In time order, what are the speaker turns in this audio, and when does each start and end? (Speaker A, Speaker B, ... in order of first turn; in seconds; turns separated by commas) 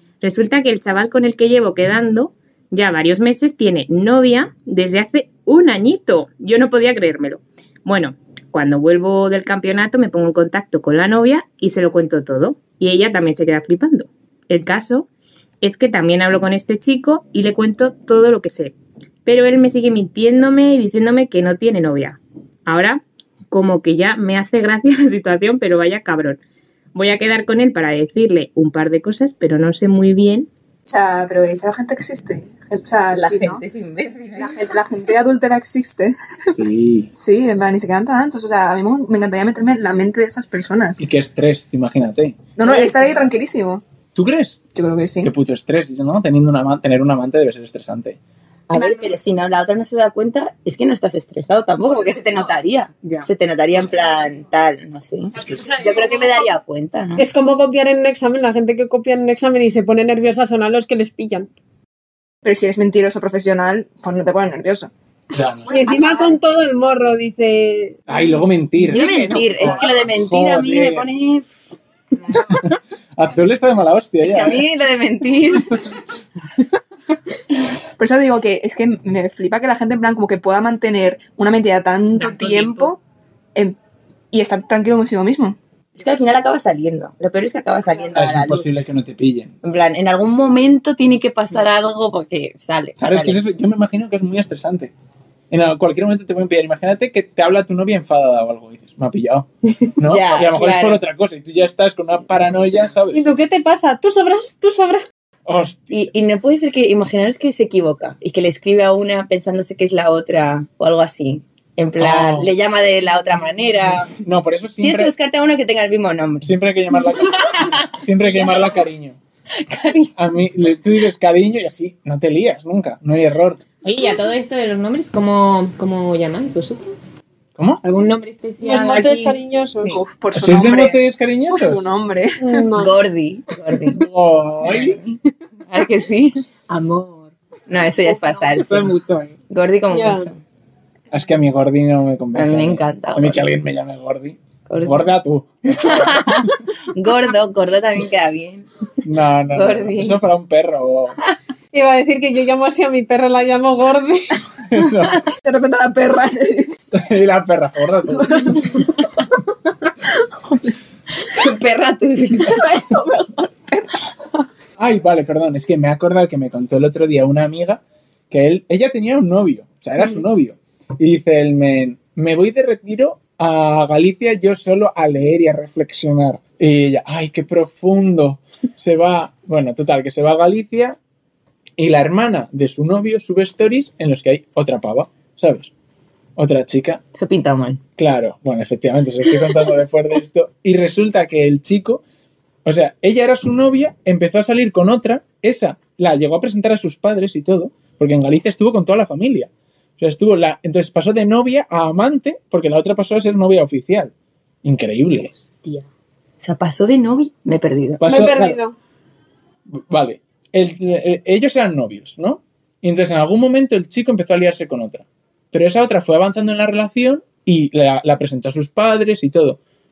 Speaker A: 0.2-15.1, Speaker A: 15.6-18.7, Speaker A: 19.2-26.4, Speaker A: 26.9-30.5, Speaker B: 30.9-33.6, Speaker C: 33.1-35.0, Speaker B: 34.4-36.2, Speaker D: 36.5-37.1, Speaker B: 37.1-41.0, Speaker D: 41.0-42.4, Speaker B: 42.6-43.8, Speaker C: 42.7-43.2, Speaker D: 44.1-44.6, Speaker B: 44.8-45.3, Speaker D: 45.2-48.2, Speaker C: 48.7-57.2, Speaker A: 53.0-53.3, Speaker E: 57.2-61.5, Speaker B: 62.4-64.9, Speaker D: 65.3-65.8, Speaker E: 65.7-68.1, Speaker D: 68.1-71.1, Speaker C: 68.8-71.5, Speaker A: 68.9-69.8, Speaker D: 72.5-74.7, Speaker C: 74.2-75.8, Speaker B: 78.0-83.0, Speaker A: 82.2-82.9, Speaker B: 84.3-85.6, Speaker C: 86.0-88.7, Speaker D: 88.1-89.6, Speaker C: 89.6-93.4, Speaker D: 93.0-94.9, Speaker D: 95.5-103.3, Speaker C: 100.0-101.0, Speaker E: 103.1-105.0, Speaker D: 105.5-106.1, Speaker C: 105.9-114.1, Speaker D: 112.0-112.5, Speaker D: 114.1-115.1, Speaker C: 114.8-116.5, Speaker D: 116.4-119.2, Speaker C: 119.6-120.1, Speaker D: 120.2-123.6, Speaker A: 123.8-127.0, Speaker D: 127.6-127.8, Speaker A: 127.8-130.0, Speaker E: 128.6-130.0, Speaker B: 129.9-131.0, Speaker D: 130.3-131.9, Speaker B: 131.5-132.5, Speaker E: 132.4-132.9, Speaker C: 132.8-134.0, Speaker D: 133.9-135.0, Speaker C: 135.7-136.4, Speaker A: 136.7-137.3, Speaker C: 137.7-138.9, Speaker A: 138.1-139.4, Speaker C: 139.5-140.4, Speaker E: 139.9-140.3, Speaker D: 141.1-146.5, Speaker C: 142.3-143.4, Speaker C: 144.7-145.1, Speaker C: 145.7-148.7, Speaker D: 149.0-151.2, Speaker C: 149.5-150.2, Speaker E: 151.7-154.4, Speaker D: 154.7-155.2, Speaker B: 155.4-156.7, Speaker D: 156.9-158.8, Speaker B: 158.2-158.8, Speaker B: 160.4-160.8, Speaker C: 161.2-162.7, Speaker B: 162.5-163.9, Speaker D: 164.8-181.0, Speaker D: 181.8-185.7, Speaker D: 186.4-187.0, Speaker C: 187.1-187.8, Speaker D: 188.0-192.0, Speaker D: 192.7-204.1, Speaker D: 204.6-205.4, Speaker C: 206.4-208.1, Speaker D: 208.0-208.6, Speaker E: 208.1-208.8, Speaker D: 209.7-219.6